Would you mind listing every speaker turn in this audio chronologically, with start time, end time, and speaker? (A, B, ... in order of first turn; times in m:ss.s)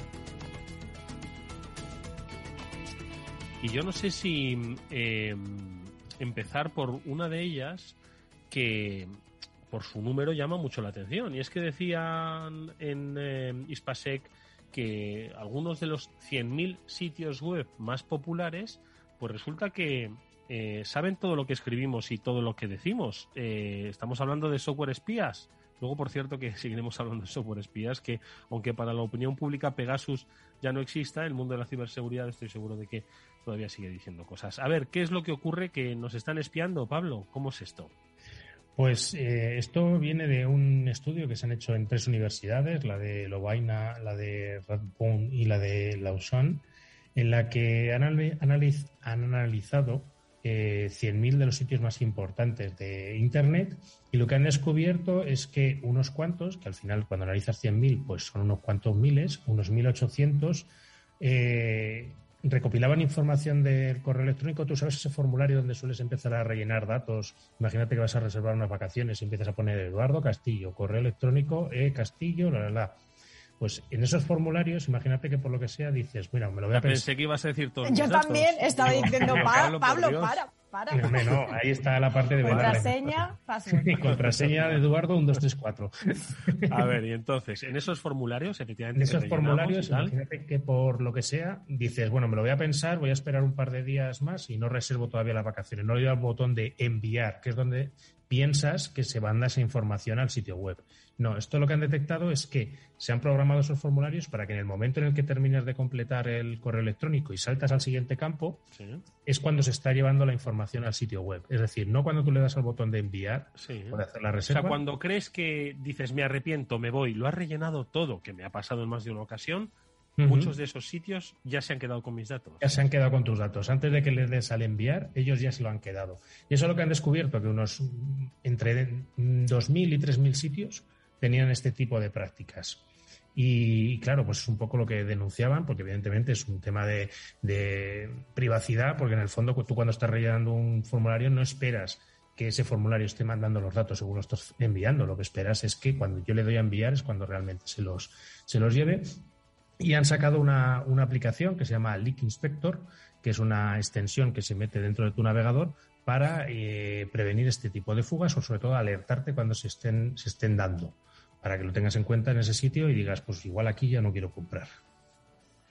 0:03.6-0:08.0 A
0:08.5-0:09.2 A
0:09.7-0:37.9 A
0:38.8-0:46.6 B
0:47.2-1:00.7 B
1:01.2-1:13.0 B
1:13.6-1:17.1 B
1:16.7-1:20.4 A
1:17.8-1:21.4 C
1:20.9-1:26.9 B
1:21.0-1:21.4 A
1:22.4-1:22.9 A
1:22.4-1:24.1 C
1:24.0-1:24.8 A
1:26.7-1:30.1 A
1:29.0-1:48.6 B
1:48.8-1:49.0 A
1:49.2-1:54.8 B
1:53.6-2:02.8 A
2:00.2-2:00.6 B
2:02.6-2:12.8 B
2:13.4-2:29.2 B
2:29.8-2:44.8 B